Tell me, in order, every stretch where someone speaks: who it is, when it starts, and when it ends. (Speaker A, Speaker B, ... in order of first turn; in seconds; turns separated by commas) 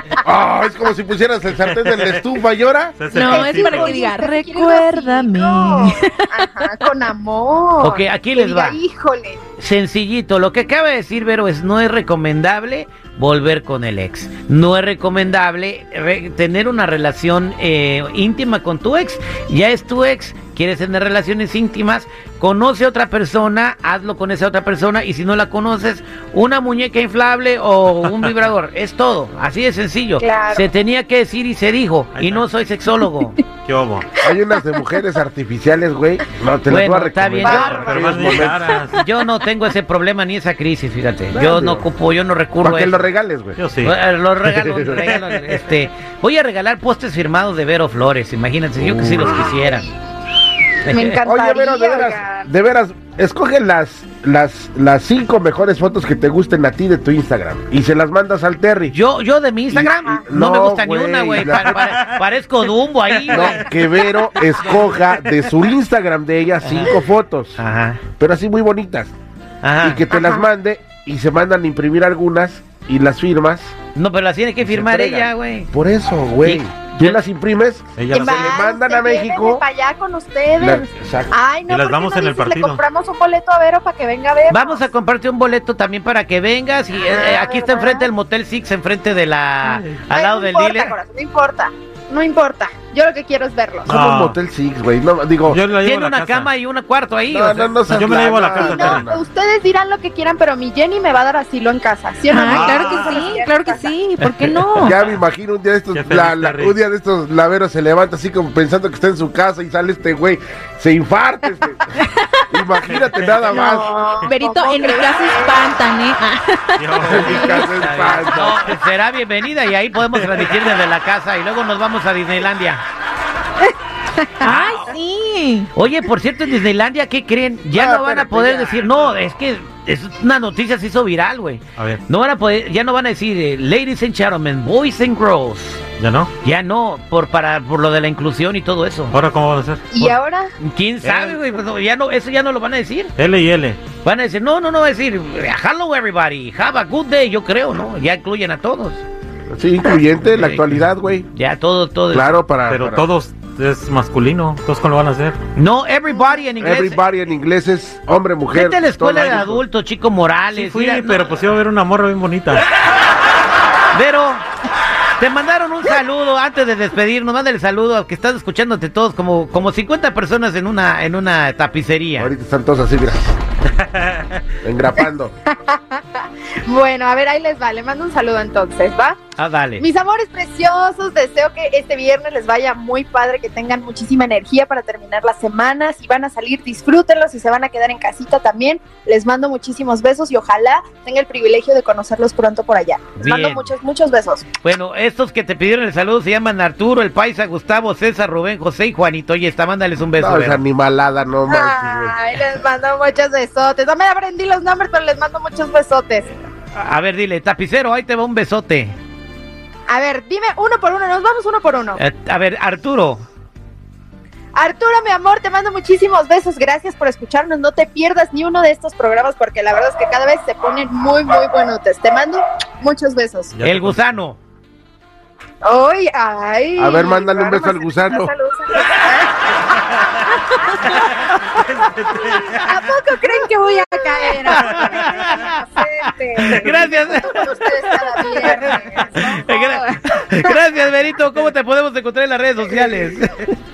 Speaker A: 0.2-3.0, Speaker B: 1.6-2.3, Speaker B: 3.0-4.0, Speaker C: 3.1-9.4, Speaker D: 3.1-6.7, Speaker E: 7.8-8.8, Speaker E: 9.6-33.4, Speaker C: 30.2-30.7, Speaker B: 32.1-32.5, Speaker B: 33.6-34.1, Speaker A: 34.2-38.8, Speaker C: 34.3-35.0, Speaker E: 36.7-37.9, Speaker C: 37.4-38.8, Speaker B: 37.6-39.0, Speaker E: 38.9-43.1, Speaker A: 41.3-41.9, Speaker A: 42.6-43.6, Speaker B: 43.6-43.9, Speaker E: 43.8-49.9, Speaker B: 45.0-45.5, Speaker A: 48.8-49.3, Speaker C: 49.3-49.8, Speaker E: 50.9-51.2, Speaker C: 50.9-52.5, Speaker A: 51.2-59.0, Speaker E: 58.9-63.7, Speaker A: 59.7-61.9, Speaker C: 59.9-60.3, Speaker B: 61.8-62.2, Speaker A: 63.3-67.6, Speaker B: 64.7-65.1, Speaker E: 66.6-67.0, Speaker E: 67.6-68.0, Speaker A: 68.2-69.1, Speaker E: 69.6-70.1, Speaker A: 69.8-73.7, Speaker C: 70.1-70.5, Speaker E: 73.9-75.7, Speaker A: 74.6-79.6, Speaker E: 76.4-77.2, Speaker B: 78.0-78.5, Speaker C: 78.1-84.9, Speaker A: 80.6-81.3, Speaker B: 81.7-82.8, Speaker E: 84.5-91.0, Speaker C: 87.0-88.1, Speaker C: 90.1-93.9, Speaker B: 93.9-94.4, Speaker A: 93.9-95.6, Speaker B: 95.4-96.5, Speaker E: 95.7-98.0, Speaker A: 97.3-99.2, Speaker B: 97.8-99.0, Speaker C: 98.6-103.9, Speaker D: 102.3-105.0, Speaker B: 102.5-103.3, Speaker E: 104.2-104.6, Speaker A: 104.8-112.0, Speaker B: 105.9-106.8, Speaker D: 112.0-112.3, Speaker A: 112.5-113.9, Speaker C: 113.5-115.7, Speaker D: 114.2-116.9, Speaker B: 116.8-118.8, Speaker E: 117.0-122.8, Speaker A: 117.0-118.7, Speaker B: 120.1-120.5, Speaker C: 123.6-124.5, Speaker D: 124.4-125.7, Speaker E: 124.4-124.9, Speaker E: 125.7-135.9, Speaker A: 127.7-128.8, Speaker B: 131.8-132.0, Speaker B: 136.0-136.3, Speaker E: 136.4-139.2, Speaker B: 139.1-140.2, Speaker C: 139.9-140.5, Speaker E: 140.6-143.1, Speaker B: 141.0-141.4, Speaker B: 143.2-143.8, Speaker E: 144.0-149.0, Speaker A: 149.5-151.3, Speaker E: 150.3-150.7, Speaker E: 151.3-152.3, Speaker A: 152.1-153.0, Speaker B: 152.7-155.3, Speaker E: 155.6-157.0, Speaker A: 156.6-159.6, Speaker E: 158.5-161.5, Speaker B: 160.5-162.7, Speaker E: 163.9-164.4, Speaker E: 165.2-172.3, Speaker A: 172.2-173.3, Speaker A: 174.6-175.3, Speaker C: 175.0-179.2, Speaker E: 179.4-179.8, Speaker C: 179.8-194.5, Speaker E: 193.2-193.7, Speaker E: 194.6-200.6, Speaker A: 200.2-202.2, Speaker C: 201.5-206.3, Speaker E: 206.7-208.9, Speaker C: 209.9-212.0, Speaker E: 211.9-213.2, Speaker C: 214.5-223.5, Speaker B: 223.5-224.2, Speaker E: 223.6-224.4, Speaker C: 225.6-240.7, Speaker A: 226.8-228.3, Speaker E: 230.8-231.6, Speaker B: 231.6-232.6, Speaker E: 232.5-232.9, Speaker E: 233.9-243.5